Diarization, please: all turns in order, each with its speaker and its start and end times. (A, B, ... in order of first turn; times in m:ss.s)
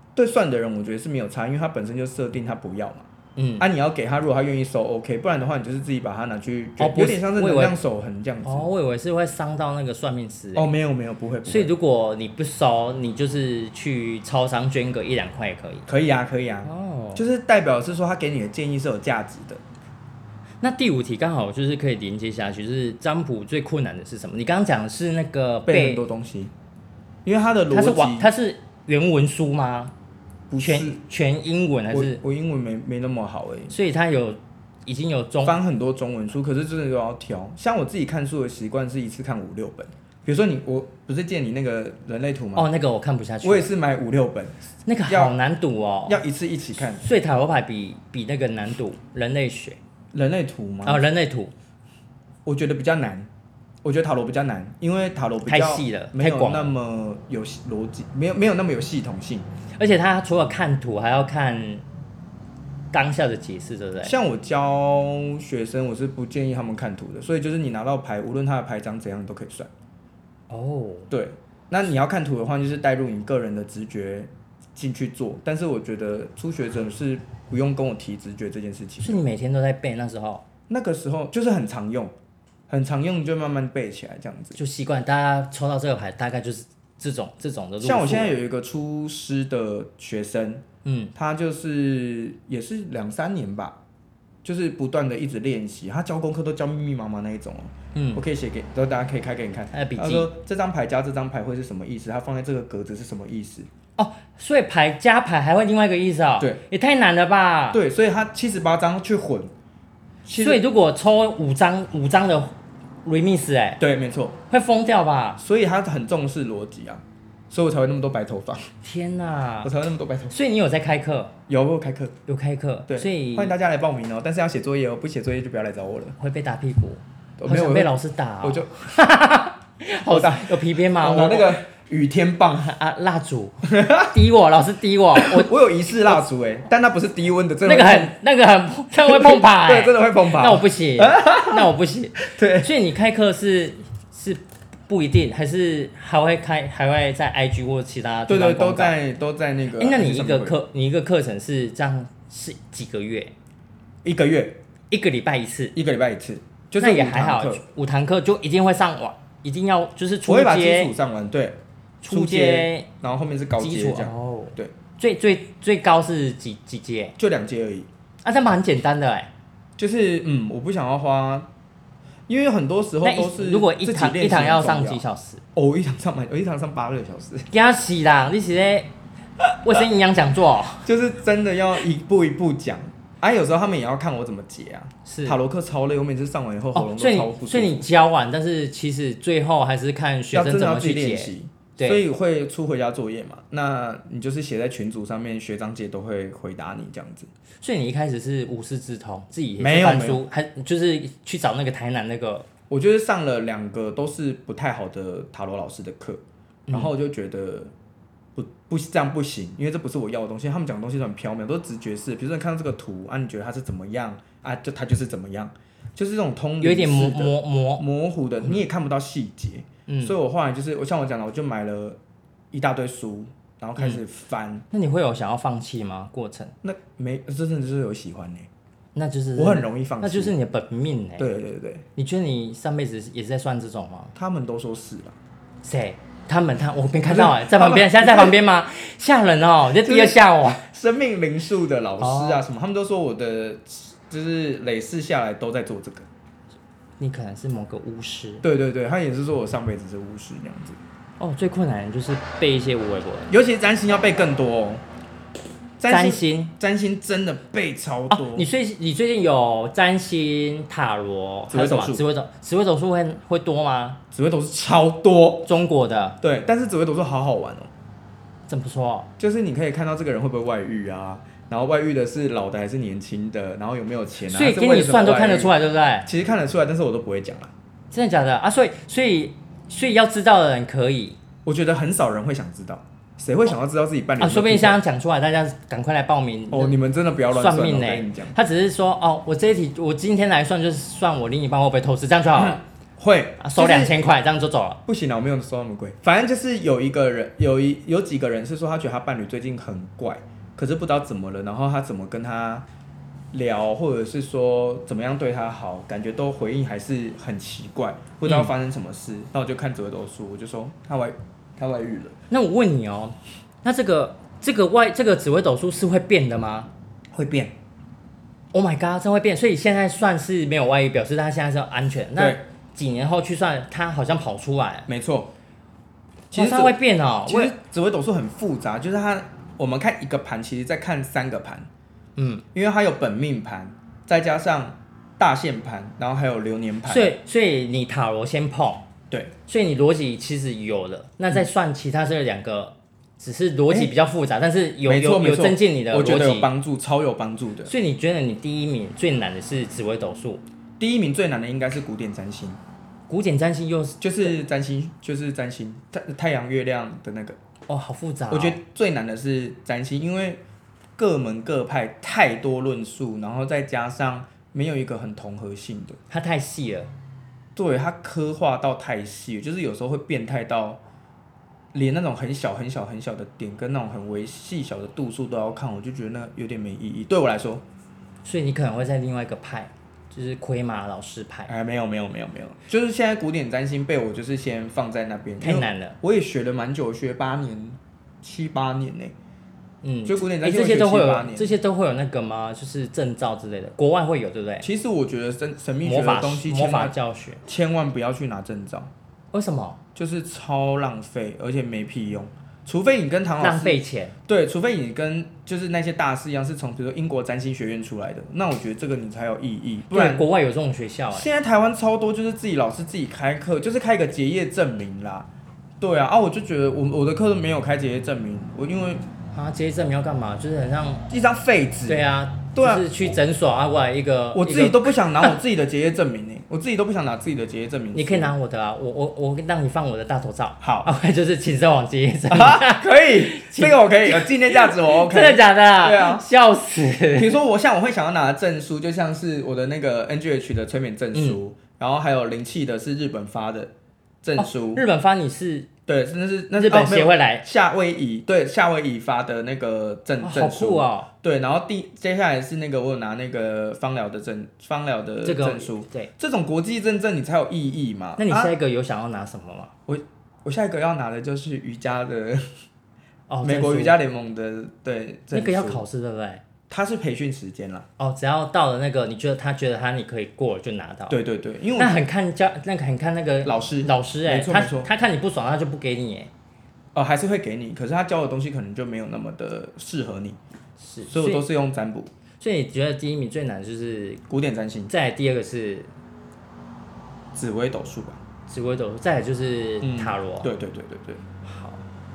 0:00.2-0:03.1 A
0:03.4-0:03.6 B
0:03.6-0:08.7 A
0:06.8-0:07.8 B
0:08.4-0:10.7 B
0:10.6-0:11.7 A
0:11.4-0:15.9 B
0:15.9-0:19.6 A
0:16.6-0:17.2 B
0:20.6-0:26.0 B
0:25.6-0:26.5 A
0:27.2-0:28.3 A
0:27.7-0:29.9 B
0:30.5-0:31.0 A
0:30.6-0:32.2 B
0:31.9-0:33.7 A
0:33.7-0:35.6 B
0:35.4-0:42.7 A
0:42.6-0:43.7 B
0:43.4-0:45.3 A
0:44.8-0:46.2 B
0:46.1-0:47.0 A
0:47.0-0:49.8 B
0:50.1-0:51.0 A
0:50.8-0:51.5 B
0:52.4-0:53.3 A
0:53.8-0:59.5 A
0:55.4-0:56.7 B
0:59.8-1:01.8 B
1:02.9-1:04.2 B
1:04.0-1:09.7 A
1:10.5-1:11.1 B
1:11.1-1:19.2 A
1:19.0-1:20.4 B
1:20.7-1:22.1 A
1:22.7-1:24.6 A
1:24.6-1:28.4 B
1:27.8-1:30.6 A
1:30.8-1:31.1 B
1:31.1-1:33.8 A
1:34.4-1:43.7 A
1:37.9-1:38.2 B
1:39.7-1:40.3 B
1:44.0-1:47.8 B
1:47.7-1:49.5 A
1:50.2-1:50.6 A
1:50.4-1:52.5 B
1:53.0-1:53.8 B
1:53.8-1:54.4 A
1:54.5-1:55.4 B
1:55.4-1:58.6 A
1:58.8-1:59.7 B
1:59.6-2:00.3 A
2:00.3-2:01.3 B
2:01.5-2:02.1 A
2:02.3-2:03.5 B
2:02.9-2:06.2 A
2:06.2-2:11.5 B
2:07.4-2:08.9 A
2:10.0-2:12.7 A
2:12.6-2:15.5 B
2:13.6-2:14.1 A
2:15.2-2:18.1 A
2:17.6-2:28.9 B
2:19.0-2:22.7 A
2:28.3-2:30.6 A
2:29.8-2:33.3 B
2:34.0-2:34.6 A
2:34.9-2:35.7 B
2:35.7-2:37.6 A
2:36.8-2:40.9 B
2:40.2-2:44.7 A
2:42.0-2:42.9 B
2:43.6-2:47.1 B
2:47.2-2:47.9 A
2:48.2-2:49.3 B
2:49.8-2:51.5 A
2:52.3-2:55.0 A
2:53.0-2:55.4 B
2:55.5-2:57.5 A
2:57.5-2:58.9 B
2:59.6-3:00.9 B
3:00.8-3:07.8 A
3:05.0-3:05.4 B
3:06.7-3:12.0 B
3:10.3-3:17.3 A
3:17.6-3:22.5 B
3:19.6-3:20.2 A
3:22.7-3:27.7 A
3:28.4-3:42.0 A
3:36.6-3:37.8 B
3:39.9-3:40.1 B
3:42.5-3:44.6 A
3:44.7-3:46.5 B
3:46.6-3:48.5 A
3:48.9-3:51.3 B
3:49.4-3:50.3 A
3:51.2-3:51.8 A
3:52.0-3:54.1 B
3:54.1-3:55.2 A
3:55.6-4:00.6 B
3:57.0-3:58.4 A
3:59.8-4:06.1 A
4:02.0-4:02.4 B
4:07.0-4:08.4 B
4:08.4-4:10.8 A
4:11.2-4:13.3 B
4:13.3-4:14.8 A
4:15.8-4:18.5 A
4:15.9-4:16.5 B
4:18.1-4:24.0 B
4:21.5-4:22.0 A
4:24.1-4:25.5 A
4:25.4-4:26.2 B
4:26.2-4:27.7 A
4:28.5-4:29.1 B
4:29.2-4:35.5 A
4:34.3-4:36.1 B
4:36.0-4:37.5 A
4:37.9-4:41.2 B
4:41.4-4:44.8 A
4:44.2-4:46.7 B
4:46.5-4:48.4 A
4:47.3-4:52.6 B
4:52.4-4:53.9 A
4:53.4-4:54.8 B
4:54.8-5:02.6 A
5:03.3-5:12.2 A
5:08.2-5:08.5 B
5:12.3-5:16.7 B
5:17.1-5:17.5 A
5:18.5-5:24.9 B
5:22.2-5:22.4 A
5:24.9-5:25.3 A
5:26.3-5:31.7 A
5:26.3-5:27.5 B
5:32.2-5:32.4 B
5:32.5-5:37.1 A
5:36.8-5:38.9 B
5:39.5-5:46.5 B
5:44.8-5:47.7 A
5:47.6-5:50.4 B
5:50.8-5:52.6 A
5:53.1-5:54.3 B
5:54.0-5:57.4 A
5:57.7-5:58.6 B
5:58.3-6:00.4 A
6:01.0-6:06.0 A
6:06.1-6:06.9 B
6:07.5-6:10.8 A
6:11.7-6:17.6 A
6:18.2-6:21.5 B
6:21.5-6:29.1 A
6:25.4-6:26.0 B
6:29.8-6:34.7 B
6:30.0-6:31.5 A
6:34.6-6:38.9 A
6:35.8-6:37.4 B
6:39.3-6:39.8 B
6:39.9-6:50.2 A
6:43.4-6:44.1 B
6:49.9-6:51.3 B
6:51.1-6:55.3 A
6:55.8-6:59.0 A
6:59.3-7:01.0 B
7:01.1-7:03.1 A
7:01.9-7:05.3 B
7:04.3-7:08.3 A
7:07.9-7:17.4 B
7:10.6-7:10.9 A
7:12.3-7:16.2 A
7:17.1-7:23.7 A
7:24.2-7:24.8 A
7:24.4-7:25.7 B
7:25.9-7:38.5 A
7:26.5-7:27.4 B
7:30.2-7:31.1 B
7:35.2-7:36.1 B
7:38.2-7:39.7 B
7:39.9-7:42.5 A
7:43.3-7:44.0 B
7:43.4-7:45.8 A
7:45.3-7:46.4 B
7:46.7-7:47.8 A
7:48.0-7:51.2 B
7:51.1-7:52.0 A
7:51.8-7:56.3 B
7:53.4-7:54.9 A
7:56.9-8:00.4 A
8:00.8-8:01.4 B
8:01.1-8:02.1 A
8:02.4-8:04.2 B
8:04.3-8:04.9 A
8:04.9-8:05.9 B
8:07.3-8:08.2 A
8:08.5-8:10.5 B
8:09.8-8:11.2 A
8:11.4-8:11.8 B